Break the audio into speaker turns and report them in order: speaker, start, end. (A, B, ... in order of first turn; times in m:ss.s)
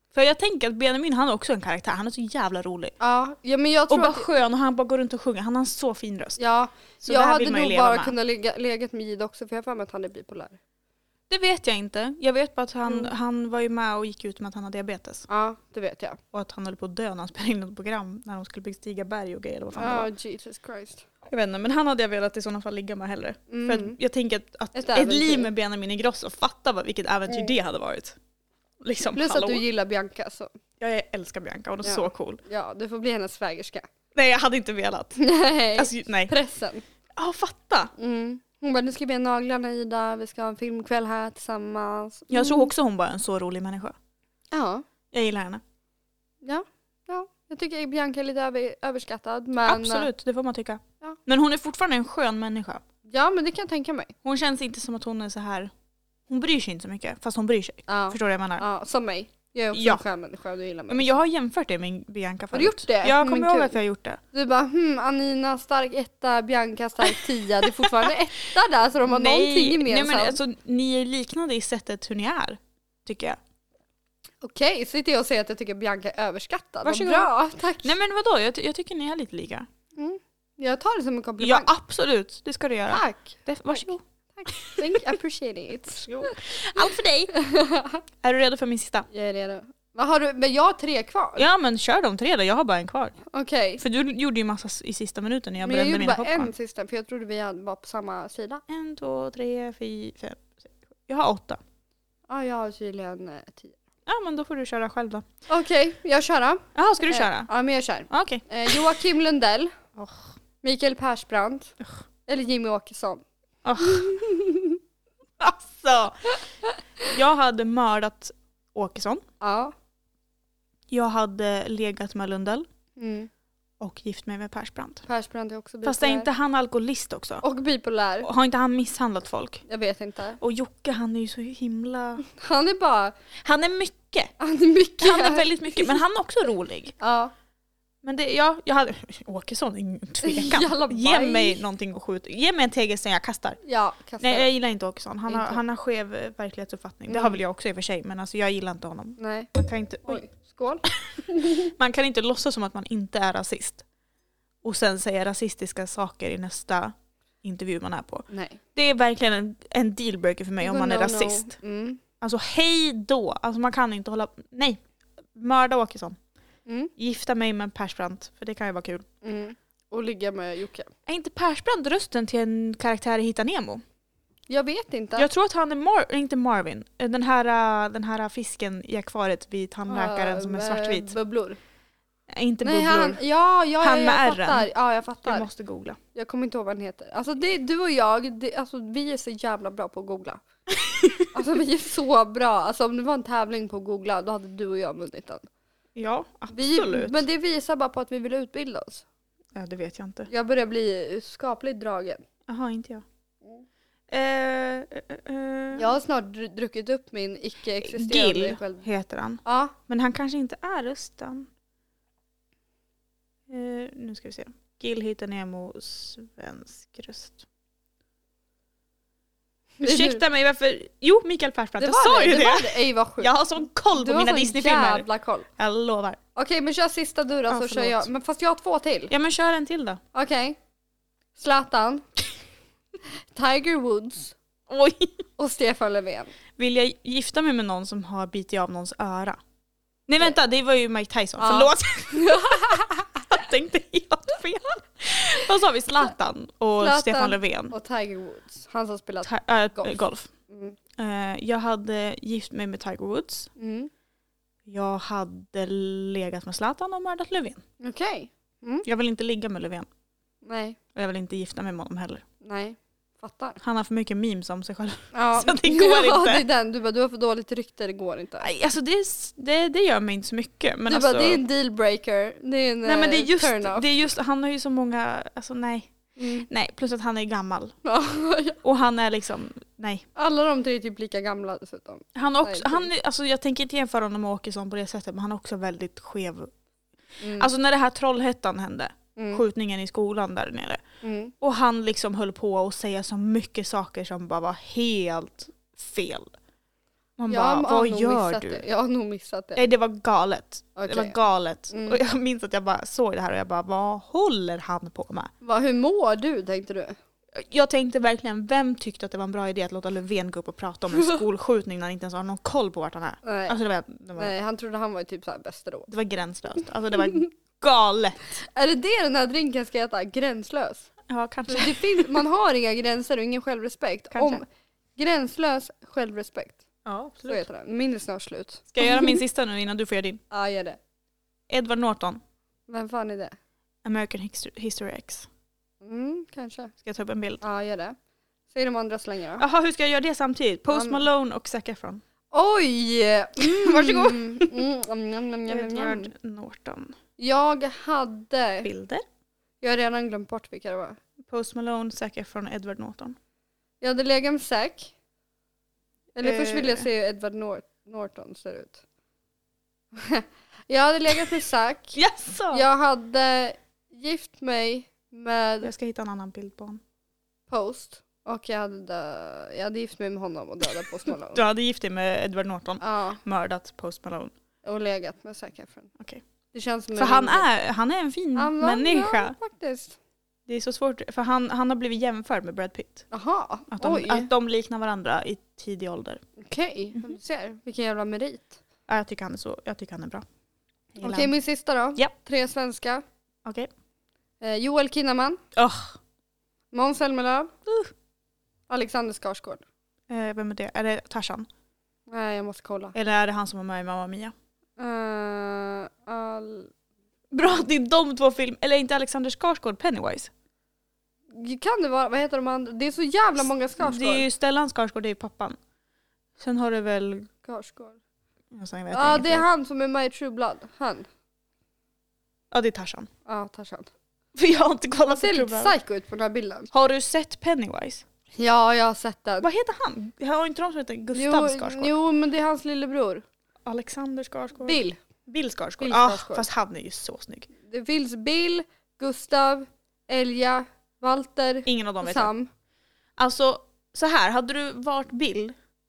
0:00.1-0:02.9 A
0:03.0-0:04.3 B
0:03.9-0:06.4 A
0:06.4-0:10.6 B
0:07.0-0:08.2 A
0:11.3-0:15.3 A
0:15.3-0:16.2 B
0:16.3-0:20.1 A
0:19.8-0:21.0 B
0:21.3-0:28.2 A
0:23.5-0:24.0 B
0:24.8-0:25.5 B
0:28.8-0:29.6 A
0:29.1-0:30.5 B
0:30.8-0:32.4 A
0:31.8-0:33.9 B
0:34.2-0:35.2 A
0:35.2-0:36.8 B
0:35.8-0:36.3 A
0:37.2-0:37.9 A
0:38.0-0:42.7 B
0:42.3-0:44.0 A
0:44.5-0:44.8 B
0:45.1-0:45.6 A
0:46.4-0:50.1 B
0:49.7-0:52.8 A
0:53.1-0:54.1 B
0:54.2-0:55.7 A
0:56.3-0:58.6 A
0:57.9-1:01.2 B
0:59.7-1:00.0 A
1:00.9-1:04.2 A
1:02.5-1:03.8 B
1:04.3-1:10.4 B
1:07.8-1:08.1 A
1:09.0-1:13.4 A
1:14.4-1:18.0 B
1:16.8-1:17.3 A
1:17.8-1:19.7 A
1:20.0-1:21.7 B
1:21.4-1:24.8 A
1:22.9-1:26.4 B
1:25.9-1:27.3 A
1:27.3-1:28.0 B
1:28.2-1:29.1 A
1:29.1-1:31.4 B
1:31.4-1:33.2 A
1:33.3-1:33.8 B
1:33.8-1:36.5 A
1:35.6-1:38.6 B
1:38.7-1:41.6 A
1:42.3-1:43.8 B
1:44.1-1:45.2 A
1:45.5-1:49.8 B
1:46.8-1:47.5 A
1:48.1-1:48.8 A
1:50.0-1:50.3 A
1:50.6-1:51.7 B
1:52.3-1:53.2 B
1:53.6-1:54.1 A
1:53.8-1:54.8 B
1:55.4-1:56.2 A
1:57.1-1:59.2 A
1:59.4-1:59.7 B
2:00.9-2:02.7 A
2:03.0-2:03.3 B
2:03.8-2:05.0 A
2:05.1-2:06.3 B
2:05.8-2:07.4 A
2:07.4-2:08.3 B
2:08.2-2:09.6 A
2:09.7-2:10.4 B
2:10.4-2:12.2 A
2:12.2-2:13.2 B
2:13.4-2:14.3 A
2:14.4-2:16.0 B
2:15.0-2:16.9 A
2:17.0-2:17.3 B
2:18.0-2:23.6 A
2:20.2-2:21.6 B
2:23.6-2:24.5 B
2:24.2-2:30.2 A
2:25.3-2:25.6 B
2:27.1-2:27.4 B
2:29.2-2:29.5 B
2:30.1-2:31.7 B
2:30.9-2:33.8 A
2:34.6-2:41.6 A
2:38.3-2:38.6 B
2:40.6-2:42.0 B
2:42.2-2:44.8 A
2:45.4-2:46.2 A
2:47.0-2:49.1 A
2:49.2-2:50.9 B
2:51.1-2:53.8 A
2:54.5-2:55.3 B
2:55.2-3:01.2 A
2:59.9-3:01.6 B
3:02.3-3:03.2 A
3:02.6-3:05.5 B
3:03.8-3:04.7 A
3:05.2-3:06.0 A
3:06.1-3:10.4 B
3:10.7-3:11.3 A
3:11.3-3:15.5 B
3:16.0-3:17.2 A
3:16.5-3:19.0 B
3:19.6-3:20.3 A
3:20.3-3:22.2 B
3:22.5-3:23.0 A
3:24.1-3:25.9 A
3:25.7-3:28.9 B
3:27.8-3:31.5 A
3:29.4-3:29.8 B
3:33.5-3:37.4 A
3:39.8-3:40.2 B
3:39.8-3:45.1 A
3:41.8-3:43.4 B
3:43.9-3:45.5 B
3:45.6-3:46.2 A
3:46.4-3:49.1 B
3:47.5-3:48.1 A
3:49.1-3:50.0 A
3:50.1-3:50.6 B
3:51.4-3:52.0 B
3:53.3-3:54.4 B
3:54.7-3:55.2 A
3:55.4-3:56.3 B
3:56.6-3:59.4 A
4:00.1-4:07.7 A
4:01.4-4:03.1 B
4:06.8-4:10.0 B
4:09.2-4:10.3 A
4:10.5-4:10.8 B
4:11.0-4:13.5 A
4:13.6-4:13.9 B
4:14.7-4:17.6 A
4:17.8-4:18.8 B
4:18.8-4:19.9 A
4:20.4-4:20.8 B
4:21.0-4:22.2 A
4:22.4-4:23.6 B
4:23.6-4:26.4 A
4:25.1-4:28.5 B
4:28.4-4:31.4 A
4:30.9-4:33.9 B
4:32.8-4:35.9 A
4:36.2-4:36.5 B
4:36.5-4:37.8 A
4:37.8-4:38.6 B
4:38.6-4:40.0 A
4:40.2-4:42.9 B
4:42.2-4:46.5 A
4:47.2-4:47.5 B
4:47.4-4:50.8 A
4:49.2-4:49.4 B
4:51.0-4:51.3 B
4:51.4-4:56.3 A
4:57.2-4:58.6 A
4:57.3-4:59.7 B
4:59.6-5:05.3 A
5:00.8-5:01.2 B
5:01.7-5:02.0 B
5:05.4-5:07.0 B
5:07.3-5:14.3 A
5:13.2-5:13.6 B
5:14.2-5:15.9 B
5:15.9-5:18.4 A
5:18.5-5:20.9 B
5:21.1-5:22.2 A
5:21.5-5:24.4 B
5:24.1-5:24.4 A
5:25.0-5:26.6 B
5:26.8-5:27.4 A
5:27.3-5:29.2 B
5:28.7-5:30.2 A
5:30.3-5:30.8 B
5:31.5-5:32.2 A
5:32.7-5:33.4 B
5:33.8-5:35.3 A
5:35.8-5:36.7 B
5:36.8-5:37.4 A
5:37.4-5:38.0 B
5:38.5-5:39.4 B
5:39.4-5:42.0 A
5:40.7-5:41.0 B
5:42.3-5:46.1 B
5:43.4-5:44.6 A
5:45.5-5:47.0 A
5:47.2-5:48.7 B
5:48.6-5:49.0 A
5:49.6-5:51.0 B
5:51.2-5:53.2 A
5:53.8-5:54.9 B
5:56.2-5:58.8 B
5:56.2-5:56.9 A
6:00.0-6:02.0 B
6:02.0-6:02.7 A
6:02.5-6:05.7 B
6:05.6-6:06.8 A
6:07.5-6:11.4 B
6:11.1-6:14.3 A
6:12.8-6:13.2 B
6:14.6-6:15.9 B
6:16.5-6:17.5 B
6:17.0-6:19.4 A
6:18.4-6:20.0 B
6:20.5-6:23.1 A
6:23.1-6:24.3 B
6:23.7-6:26.2 A
6:26.4-6:28.6 B
6:28.9-6:30.2 A
6:31.0-6:31.3 A
6:31.0-6:33.0 B
6:33.4-6:33.7 A
6:34.4-6:35.4 B
6:35.6-6:36.0 A
6:36.7-6:37.5 B
6:37.7-6:37.9 A
6:38.7-6:39.6 B
6:40.1-6:41.5 A
6:42.1-6:42.9 B
6:42.9-6:44.3 A
6:44.8-6:46.7 B
6:47.3-6:50.3 A
6:51.3-6:54.3 B
6:53.8-6:55.6 A
6:56.4-6:57.3 A
6:57.4-6:58.0 B
6:58.5-6:59.5 A
6:58.9-7:01.1 B
7:02.5-7:03.1 A
7:03.3-7:03.9 B
7:04.4-7:05.7 A
7:05.1-7:06.7 B
7:06.7-7:08.0 A
7:08.4-7:09.5 B
7:09.4-7:11.9 A
7:11.1-7:13.2 B
7:13.7-7:17.5 A
7:14.6-7:15.0 B
7:15.8-7:16.5 B
7:17.6-7:22.5 B
7:21.7-7:22.3 A
7:23.2-7:25.6 A